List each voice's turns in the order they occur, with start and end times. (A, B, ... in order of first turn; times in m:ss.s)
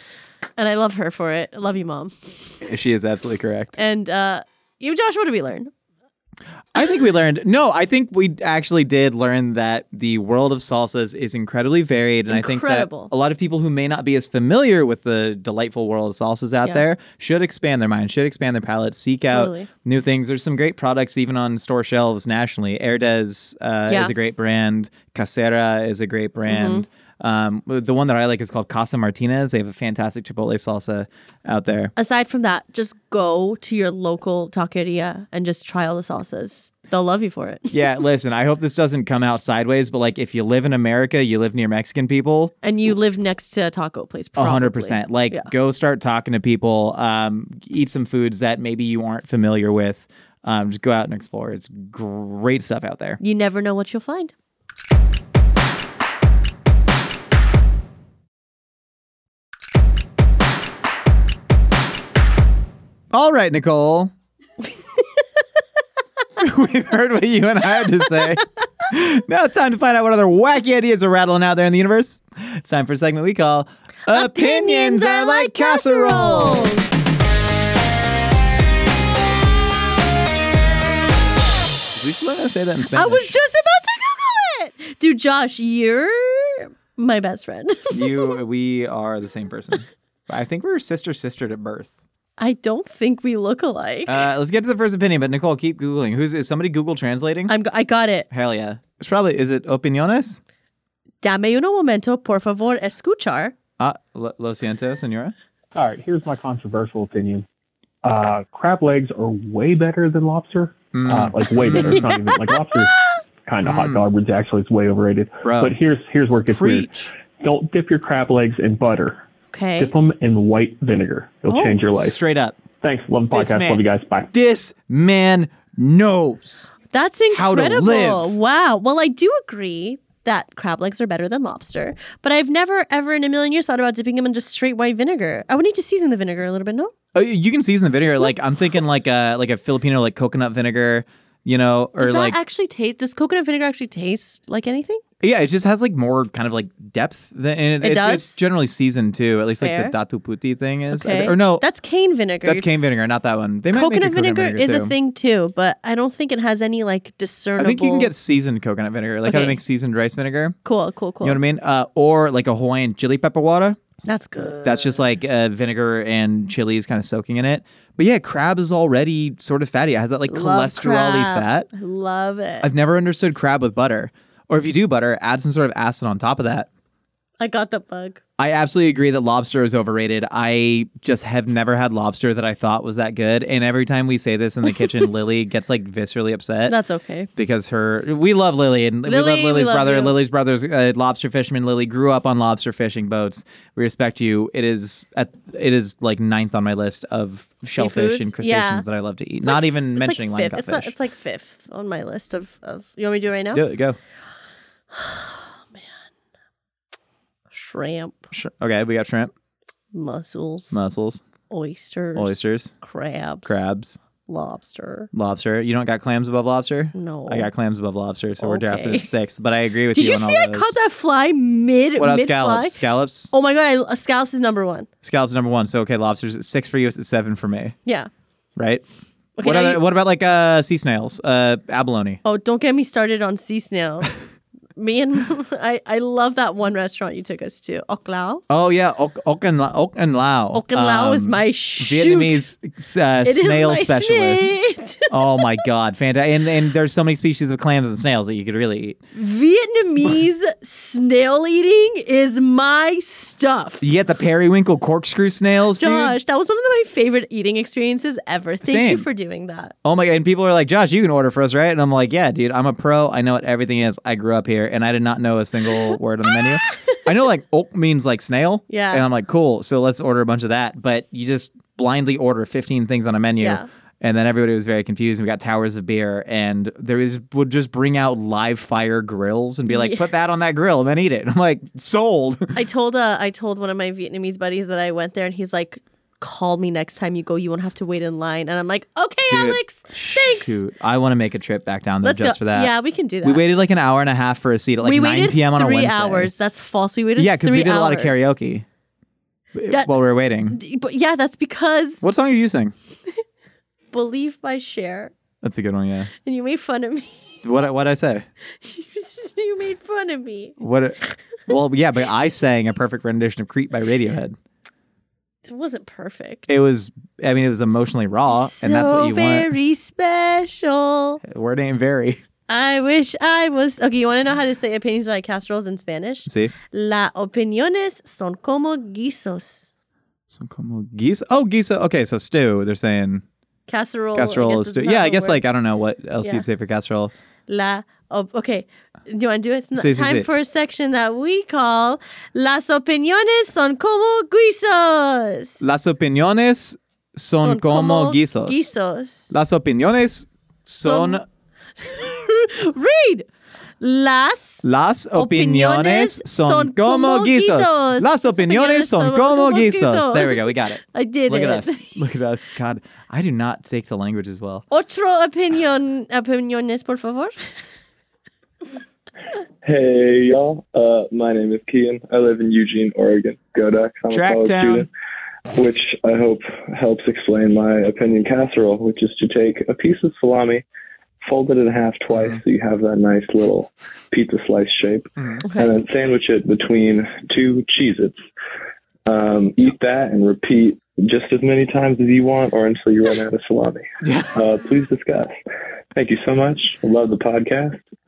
0:00.6-0:02.3 A
0:02.6-0:03.8 B
0:03.8-0:05.7 A
0:06.7-0:31.9 B
0:12.3-0:13.1 A
0:19.3-0:19.7 A
0:26.5-0:26.8 A
0:32.0-0:37.8 A
0:37.7-0:42.5 B
0:42.6-0:45.5 A
0:44.4-0:53.2 B
0:53.2-0:54.3 A
1:03.1-1:04.1 B
1:06.4-1:16.7 B
1:14.1-1:16.9 A
1:21.9-1:23.3 B
1:22.9-1:28.3 A
1:27.9-1:31.9 B
1:32.4-1:34.2 A
1:34.1-1:37.5 B
1:37.5-1:38.3 A
1:38.3-1:40.4 B
1:41.2-1:43.5 A
1:43.8-1:45.3 B
1:45.7-1:47.4 C
1:48.0-1:59.2 C
1:50.9-1:52.1 B
1:51.7-1:52.0 A
1:53.6-1:54.0 B
1:55.4-1:55.7 B
1:56.5-1:57.1 B
1:59.5-1:59.9 A
1:59.8-2:02.2 C
2:01.5-2:01.7 A
2:01.8-2:02.6 B
2:02.8-2:04.3 C
2:03.3-2:06.7 B
2:06.9-2:16.9 A
2:07.3-2:08.4 B
2:17.1-2:22.4 B
2:22.0-2:25.0 A
2:25.2-2:31.6 B
2:27.8-2:28.4 A
2:29.6-2:29.9 A
2:30.9-2:32.7 A
2:32.4-2:34.9 B
2:33.7-2:38.1 A
2:37.6-2:40.6 B
2:39.2-2:39.6 A
2:40.6-2:41.4 A
2:41.2-2:43.8 B
2:44.0-2:45.0 A
2:44.6-2:51.7 B
2:50.3-2:52.7 A
2:52.6-2:56.7 B
2:57.4-2:58.2 A
2:58.4-3:06.8 B
3:06.7-3:07.3 A
3:07.4-3:20.9 B
3:09.0-3:10.2 A
3:17.7-3:18.8 A
3:19.4-3:23.6 A
3:23.5-3:24.0 B
3:24.9-3:25.8 A
3:27.5-3:28.2 A
3:28.3-3:29.3 B
3:29.9-3:30.8 A
3:30.7-3:31.2 B
3:31.5-3:33.6 A
3:32.2-3:32.8 B
3:33.4-3:34.0 B
3:34.3-3:35.1 A
3:35.1-3:40.8 B
3:36.9-3:37.5 A
3:38.4-3:39.1 A
3:39.9-3:42.8 A
3:42.0-3:43.3 B
3:43.3-3:44.9 A
3:45.0-3:47.8 B
3:48.6-3:48.8 B
3:49.4-3:49.8 A
3:49.4-3:52.2 B
3:52.2-3:54.2 A
3:54.8-3:58.4 A
3:58.5-4:04.6 B
4:00.5-4:02.4 A
4:03.2-4:05.6 A
4:05.1-4:09.0 B
4:09.1-4:13.8 A
4:13.8-4:16.2 B
4:15.8-4:19.7 A
4:18.6-4:19.1 B
4:19.8-4:42.6 B
4:28.7-4:29.0 A
4:33.4-4:33.7 A
4:39.7-4:40.0 A
4:42.5-4:50.6 A
4:49.3-4:56.3 B
4:52.0-4:53.4 A
4:54.8-4:58.3 A
4:57.2-4:58.6 B
4:59.5-5:00.6 B
5:00.5-5:02.0 A
5:02.0-5:02.7 B
5:03.9-5:05.1 A
5:05.4-5:06.1 B
5:06.2-5:07.2 A
5:07.4-5:08.2 B
5:08.6-5:10.6 A
5:10.6-5:14.4 B
5:15.4-5:16.5 A
5:16.5-5:19.5 B
5:18.3-5:21.2 A
5:21.2-5:22.2 B
5:22.5-5:29.7 A
5:26.2-5:26.5 B
5:30.3-5:33.2 B
5:33.7-5:35.4 A
5:34.1-5:37.1 B
5:37.5-5:45.7 A
5:39.7-5:40.3 B
5:45.6-5:48.7 B
5:47.4-5:49.3 A
5:49.3-5:51.2 B
5:50.8-5:51.2 A
5:51.8-5:53.3 A
5:53.8-5:54.6 A
5:54.6-6:04.6 B
5:55.1-6:02.0 A
6:04.7-6:07.3 A
6:09.6-6:14.9 D
6:14.1-6:14.9 B
6:15.5-6:20.6 D
6:21.2-6:28.2 D
6:22.1-6:22.4 B
6:25.2-6:25.4 B
6:25.4-6:25.7 A
6:29.1-6:33.8 D
6:34.0-6:34.4 B
6:34.3-6:35.3 D
6:35.9-6:37.8 D